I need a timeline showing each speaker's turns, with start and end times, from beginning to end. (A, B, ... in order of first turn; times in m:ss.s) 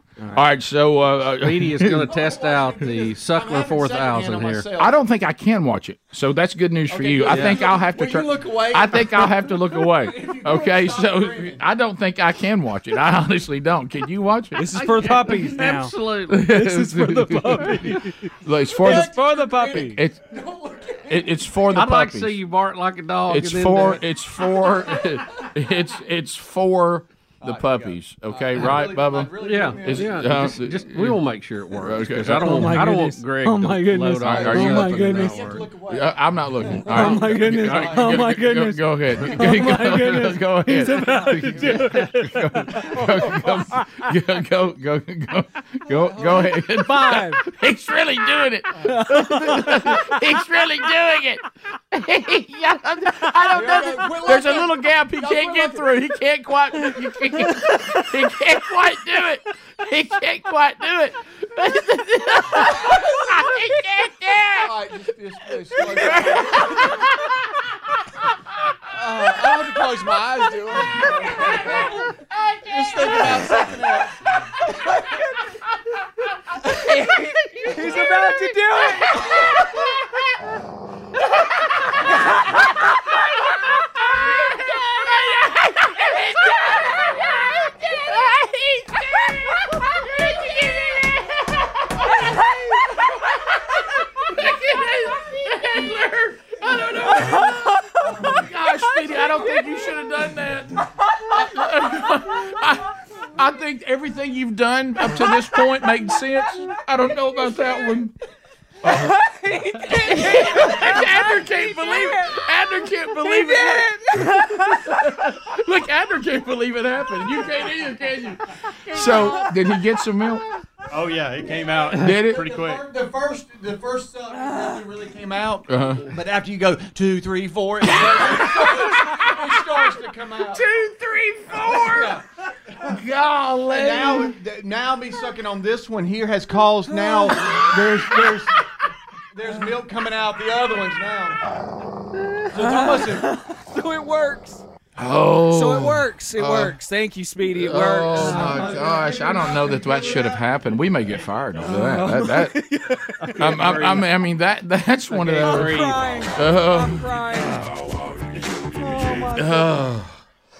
0:00.3-0:02.0 A
0:01.4-0:04.7 B
0:02.0-0:05.0 C
0:04.8-0:14.6 A
0:06.9-0:11.5 C
0:07.3-0:07.7 B
0:10.8-0:11.2 D
0:14.5-0:15.9 E
0:14.7-0:16.6 B
0:16.3-0:19.1 A
0:16.5-0:18.0 E
0:18.8-0:20.0 E
0:18.8-0:21.2 C
0:19.7-0:20.2 A
0:21.0-0:22.4 A
0:21.7-0:24.0 B
0:23.3-0:31.2 A
0:27.4-0:30.3 C
0:29.4-0:35.6 B
0:31.8-0:32.7 A
0:32.4-0:35.5 E
0:34.2-0:35.0 A
0:34.7-0:38.2 C
0:35.9-1:04.7 A
0:36.9-0:43.2 E
0:41.4-0:42.0 C
0:46.7-0:47.4 E
0:49.0-0:50.2 E
0:53.5-0:55.9 C
1:04.6-1:07.0 C
1:06.1-1:06.6 A
1:08.9-1:12.0 C
1:12.6-1:14.1 C
1:16.9-1:19.3 E
1:30.3-1:31.3 A
1:34.2-1:48.1 A
1:48.8-1:49.1 A
1:48.9-1:52.4 E
1:49.8-2:00.5 A
1:53.2-1:54.9 E
2:00.9-2:02.8 D
2:01.9-2:02.5 A
2:02.2-2:10.6 C
2:05.7-2:06.1 A
2:08.0-2:08.7 A
2:10.5-2:12.1 A
2:11.5-2:12.2 C
2:12.8-2:14.3 A
2:13.7-2:18.6 C
2:19.3-2:21.4 C
2:22.5-2:23.3 C
2:22.6-2:24.6 E
2:25.0-2:26.8 A
2:25.5-2:29.1 E
2:27.5-2:32.6 A
2:28.2-2:28.9 C
2:31.6-2:34.0 E
2:33.4-2:37.0 A
2:35.1-2:36.0 B
2:35.2-2:37.7 E
2:38.7-2:39.8 E
2:39.3-2:40.1 A